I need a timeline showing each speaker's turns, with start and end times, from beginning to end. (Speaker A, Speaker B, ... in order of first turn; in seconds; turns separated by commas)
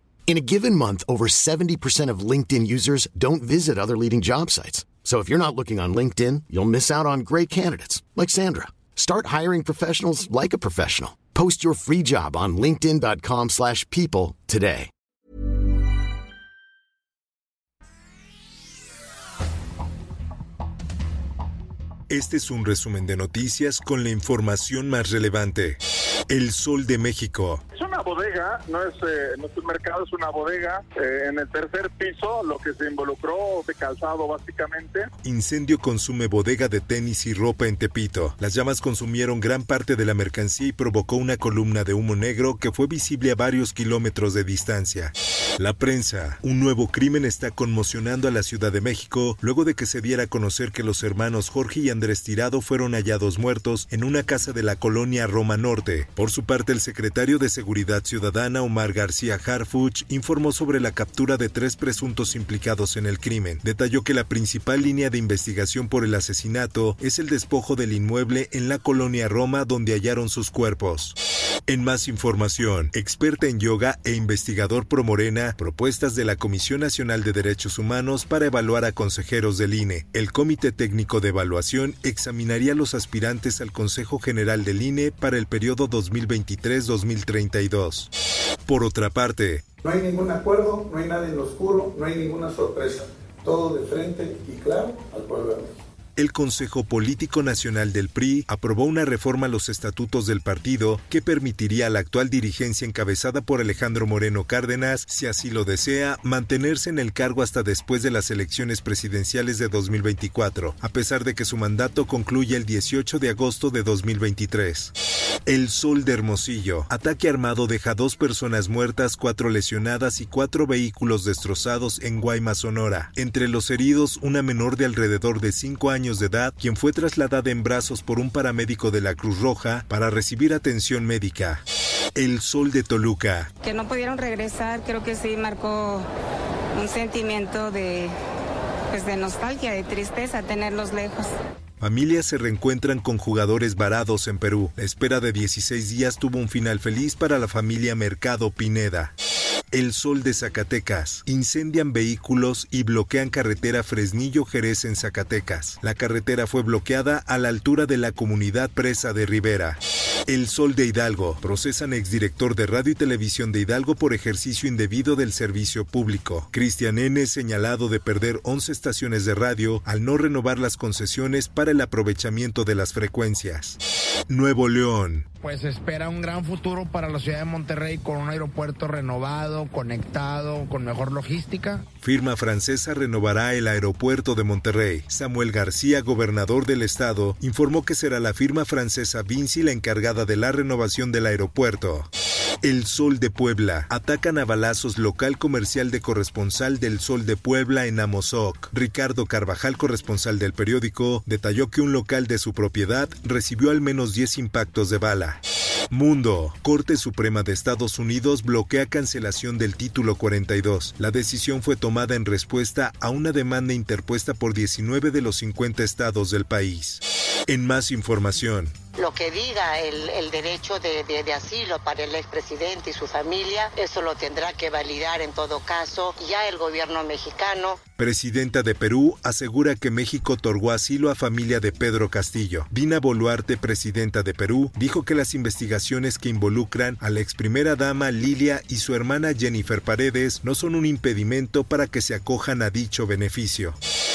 Speaker A: 0.3-14.9, Speaker B: 22.1-25.8, Speaker B: 26.3-27.6, Speaker C: 27.7-35.1, Speaker B: 35.2-88.1, Speaker B: 88.7-89.7, Speaker D: 89.8-95.7, Speaker B: 96.2-114.9, Speaker B: 115.5-131.6, Speaker B: 132.2-133.5, Speaker E: 133.6-136.1, Speaker E: 136.8-138.1, Speaker E: 138.9-141.3, Speaker B: 141.8-149.1, Speaker B: 149.7-175.3, Speaker F: 175.4-181.8, Speaker B: 182.0-192.1, Speaker B: 192.6-218.7, Speaker G: 219.0-227.8, Speaker B: 228.0-243.8